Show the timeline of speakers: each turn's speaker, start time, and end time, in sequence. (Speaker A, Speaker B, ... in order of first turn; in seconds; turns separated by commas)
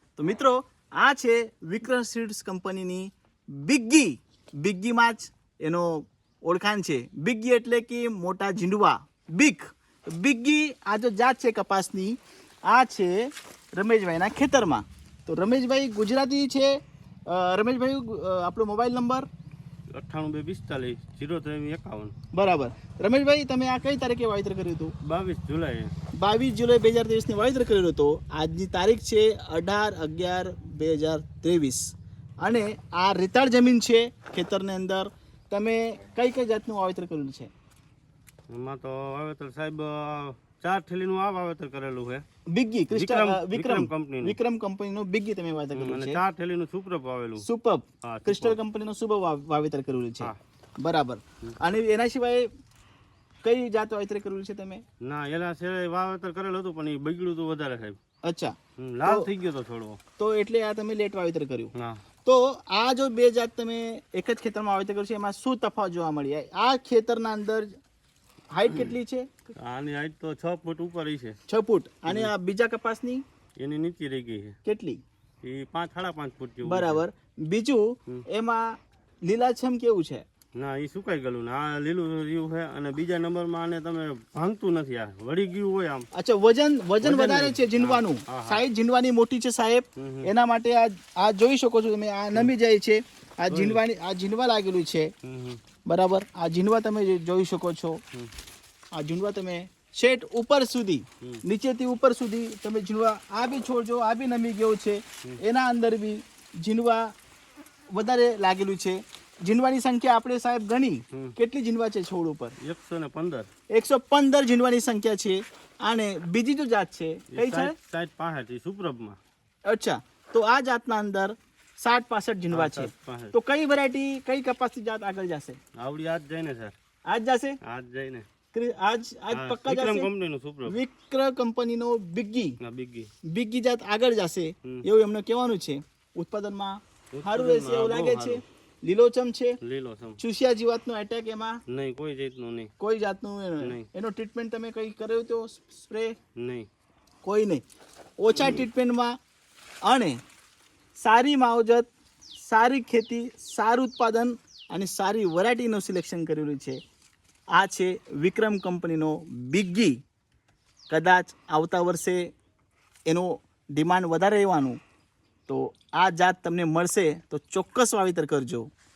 Speaker A: 0.2-19.3, Speaker B: 19.9-22.1, Speaker A: 22.3-24.9, Speaker B: 25.0-25.9, Speaker A: 26.2-37.5, Speaker B: 38.5-42.2, Speaker A: 42.5-46.2, Speaker B: 42.9-44.4, Speaker B: 45.8-47.5, Speaker A: 47.4-52.5, Speaker B: 48.0-48.6, Speaker A: 53.4-54.8, Speaker B: 55.0-58.0, Speaker A: 58.3-58.5, Speaker B: 58.8-60.0, Speaker A: 60.2-61.7, Speaker B: 61.8-62.0, Speaker A: 62.2-67.7, Speaker A: 68.5-69.3, Speaker B: 69.5-71.4, Speaker A: 71.5-73.2, Speaker B: 72.1-72.3, Speaker B: 73.6-74.6, Speaker A: 74.7-75.0, Speaker B: 75.4-77.0, Speaker A: 76.7-78.7, Speaker A: 79.3-80.2, Speaker B: 80.6-86.1, Speaker A: 86.1-95.1, Speaker B: 87.0-88.6, Speaker B: 90.0-90.3, Speaker B: 93.5-93.8, Speaker B: 95.2-95.6, Speaker A: 95.9-98.0, Speaker A: 99.0-107.1, Speaker A: 107.9-112.5, Speaker B: 112.6-113.5, Speaker A: 113.7-117.7, Speaker B: 117.3-119.2, Speaker A: 119.7-125.6, Speaker B: 122.5-123.3, Speaker B: 125.8-126.8, Speaker A: 127.1-127.6, Speaker B: 127.6-128.3, Speaker A: 128.5-130.1, Speaker B: 129.3-130.8, Speaker A: 130.7-132.6, Speaker B: 132.6-133.1, Speaker A: 133.3-139.6, Speaker B: 137.1-138.4, Speaker B: 139.6-140.2, Speaker A: 140.2-141.6, Speaker B: 141.7-142.7, Speaker A: 142.8-146.2, Speaker B: 143.6-143.9, Speaker B: 146.4-146.7, Speaker A: 147.2-147.6, Speaker A: 148.2-149.1, Speaker B: 148.3-148.7, Speaker A: 149.9-150.2, Speaker A: 151.0-151.9, Speaker A: 152.5-156.8, Speaker A: 157.6-160.0, Speaker A: 160.9-162.3, Speaker A: 163.1-164.8, Speaker A: 165.5-168.7